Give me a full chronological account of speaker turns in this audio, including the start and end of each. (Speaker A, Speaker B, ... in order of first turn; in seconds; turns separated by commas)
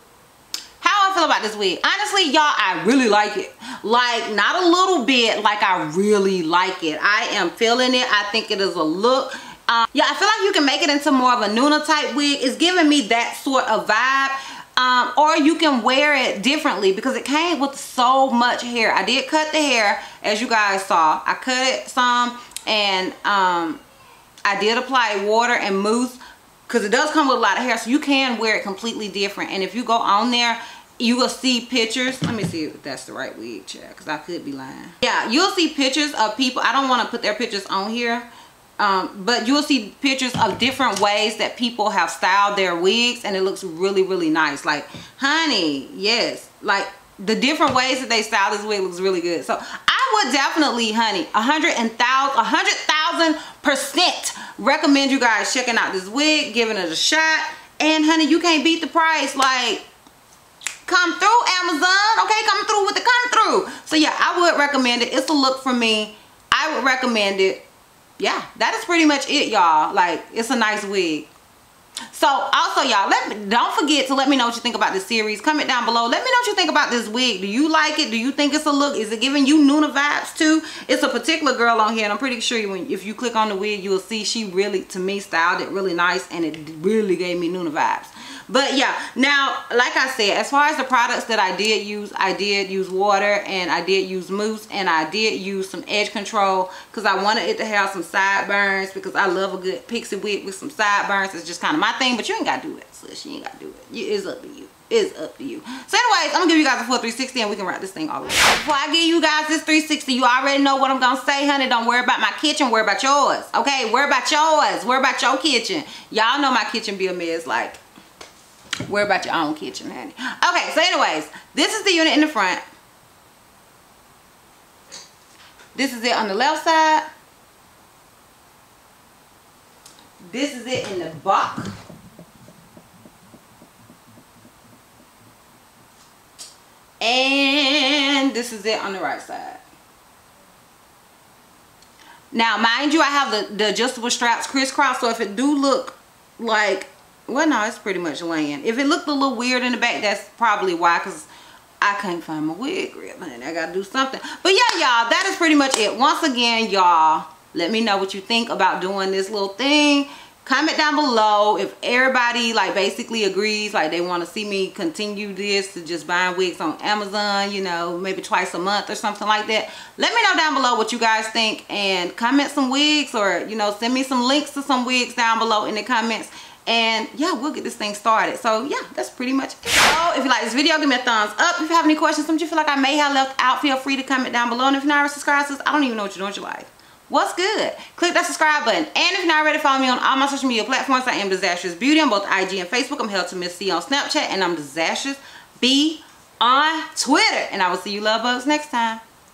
Speaker A: 0.8-23.8, Speaker A: 24.4-38.3, Speaker A: 38.8-59.9, Speaker A: 60.8-67.6, Speaker A: 68.2-71.3, Speaker A: 72.1-117.8, Speaker A: 118.8-122.6, Speaker A: 125.7-127.1, Speaker A: 130.2-131.7, Speaker A: 137.0-139.6, Speaker A: 142.3-151.3, Speaker A: 151.8-199.0